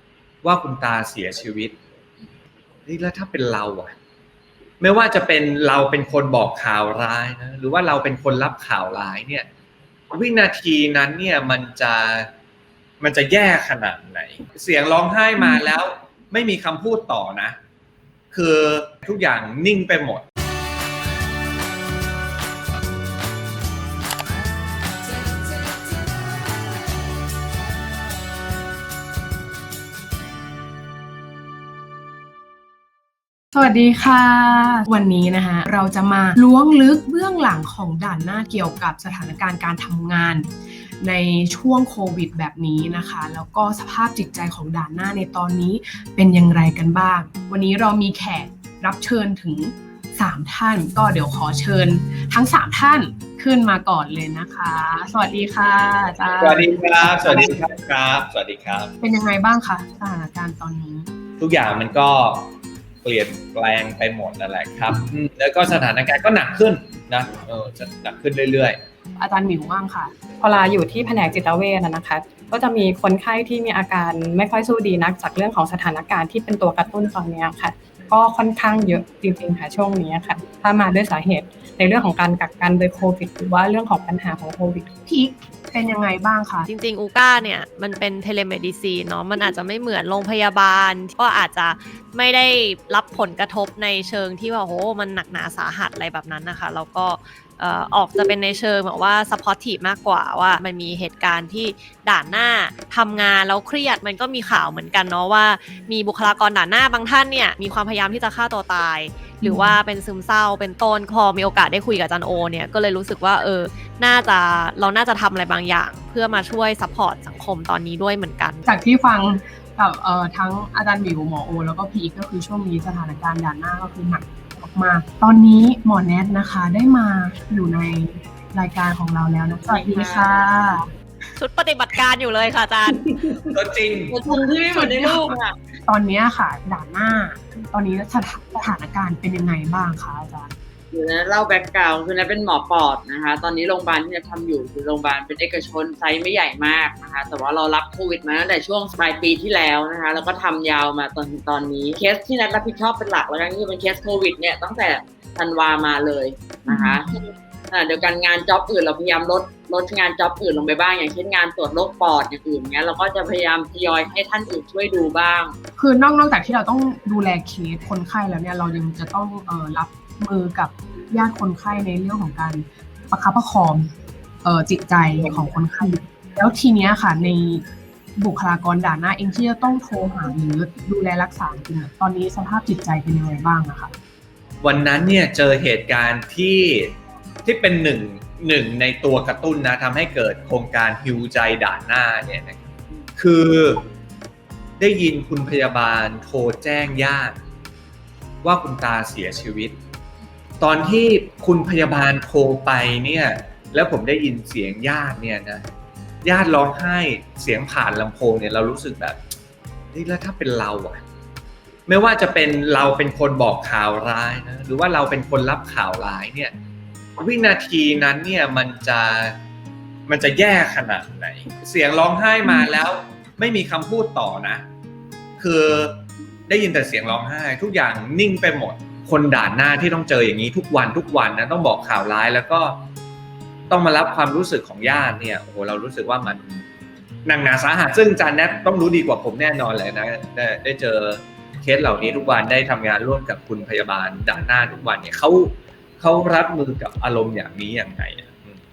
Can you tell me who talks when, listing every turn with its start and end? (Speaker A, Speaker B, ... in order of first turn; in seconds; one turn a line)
Speaker A: 0.4-1.8
Speaker A: 2.9-3.9
Speaker A: 4.8-9.5
Speaker A: 10.1-12.3
Speaker A: 13.0-17.6
Speaker A: 18.3-20.2
Speaker B: 33.5-40.5
Speaker B: 41.0-57.6
Speaker A: 56.4-58.9
Speaker B: 59.0-61.1
Speaker A: 61.4-62.5
Speaker A: 63.0-68.8
Speaker B: 69.2-70.2
Speaker C: 70.4-84.9
Speaker B: 85.1-86.7
Speaker D: 86.7-118.6
Speaker B: 109.4-109.8
Speaker B: 118.7-130.9
Speaker E: 129.7-130.3
Speaker D: 131.4-133.0
Speaker A: 133.5-134.2
Speaker E: 134.1-135.6
Speaker B: 134.2-140.6
Speaker E: 140.9-165.6
Speaker B: 156.7-157.1
Speaker B: 165.8-173.9
Speaker B: 174.4-177.6
Speaker E: 175.2-175.5
Speaker B: 178.2-183.9
Speaker A: 184.6-193.8
Speaker A: 194.8-197.4
Speaker A: 198.4-199.8
Speaker A: 200.6-205.6
Speaker A: 206.2-209.2
Speaker A: 209.9-211.0
Speaker A: 211.9-216.5
Speaker A: 217.2-219.4
Speaker A: 220.1-224.6
Speaker A: 225.4-232.8
Speaker A: 233.7-236.4
Speaker A: 237.2-248.6